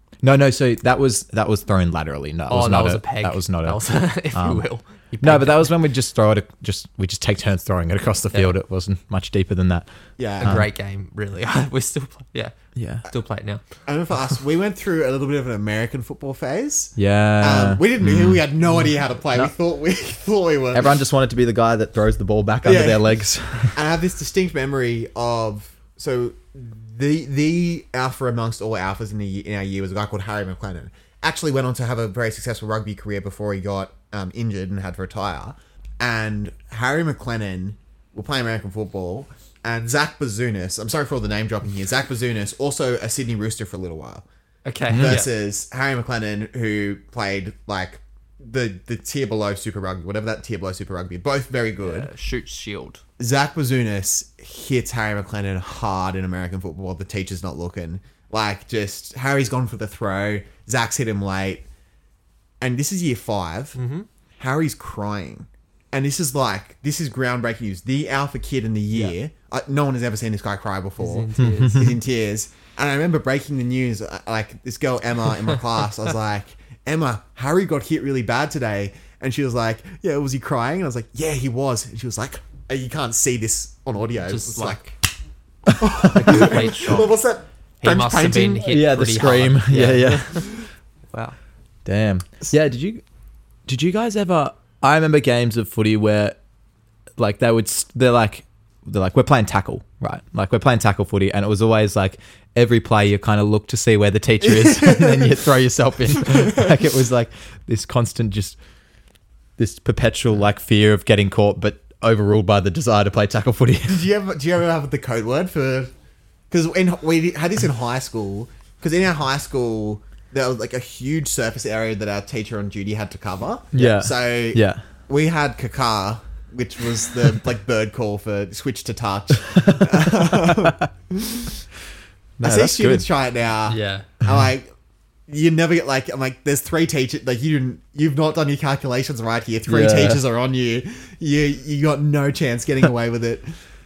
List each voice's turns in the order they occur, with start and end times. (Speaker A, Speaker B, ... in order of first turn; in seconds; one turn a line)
Speaker A: 0.2-4.6
Speaker B: 2.5-5.8
Speaker A: 5.2-9.9
Speaker C: 10.2-10.6
Speaker B: 10.4-13.6
Speaker A: 10.4-10.7
Speaker A: 12.8-13.0
Speaker C: 13.8-20.9
Speaker A: 17.0-18.4
Speaker A: 20.7-23.8
Speaker C: 22.6-23.1
Speaker C: 23.7-44.2
Speaker B: 44.6-45.3
Speaker A: 44.9-45.2
Speaker C: 44.9-52.1
Speaker B: 51.8-53.0
Speaker C: 53.2-61.7
Speaker C: 62.6-63.8
Speaker B: 63.8-64.1
Speaker C: 64.4-84.8
Speaker B: 71.0-72.0
Speaker A: 71.4-71.9
Speaker B: 84.2-84.9
Speaker C: 85.7-88.7
Speaker A: 86.0-86.5
Speaker B: 86.0-87.1
Speaker B: 87.8-90.5
Speaker A: 88.6-90.4
Speaker A: 91.8-93.0
Speaker A: 93.7-96.4
Speaker A: 97.2-108.6
Speaker C: 104.4-105.3
Speaker A: 109.6-114.0
Speaker C: 113.9-115.9
Speaker C: 116.5-131.6
Speaker A: 123.7-124.8
Speaker A: 129.6-130.7
Speaker A: 132.4-133.1
Speaker C: 132.4-134.7
Speaker B: 133.7-134.1
Speaker C: 135.3-143.6
Speaker A: 139.7-140.2